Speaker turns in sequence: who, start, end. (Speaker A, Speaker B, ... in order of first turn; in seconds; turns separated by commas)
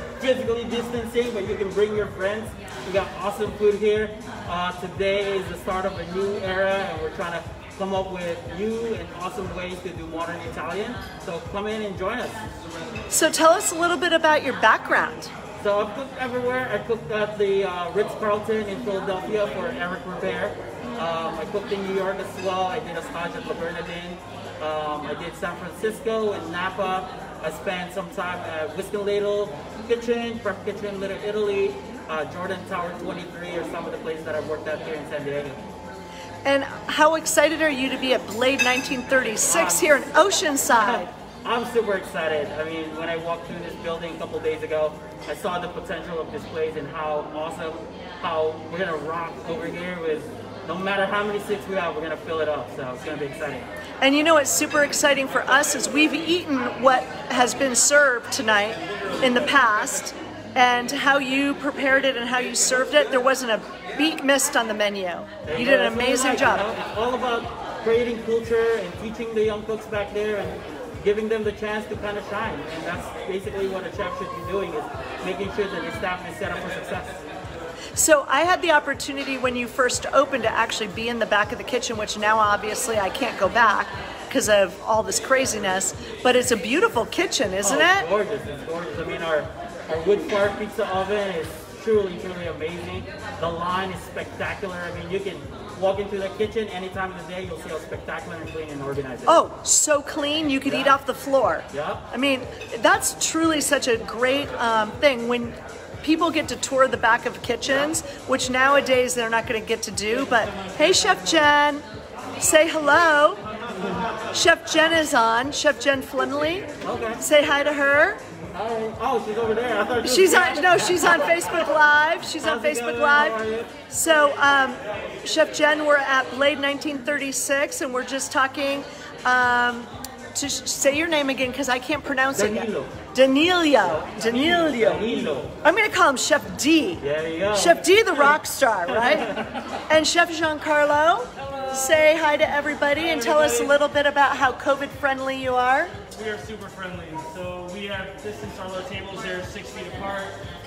Speaker A: 0.2-12.4, Speaker B: 13.1-15.3, Speaker A: 15.6-35.6, Speaker B: 36.4-41.1, Speaker A: 39.5-40.0, Speaker A: 40.7-53.6, Speaker B: 54.0-66.7, Speaker A: 65.4-77.2, Speaker B: 78.0-88.1, Speaker A: 87.6-99.4, Speaker B: 99.2-111.8, Speaker A: 100.6-101.0, Speaker A: 101.7-102.1, Speaker B: 112.4-113.4, Speaker B: 114.3-118.2, Speaker A: 116.8-117.2, Speaker A: 118.5-121.5, Speaker B: 120.0-145.9, Speaker A: 122.4-123.7, Speaker A: 132.3-132.9, Speaker C: 134.0-135.1, Speaker A: 134.8-135.5, Speaker A: 137.0-138.3, Speaker A: 138.9-139.6, Speaker C: 141.4-142.1, Speaker C: 142.9-143.7, Speaker C: 146.1-150.4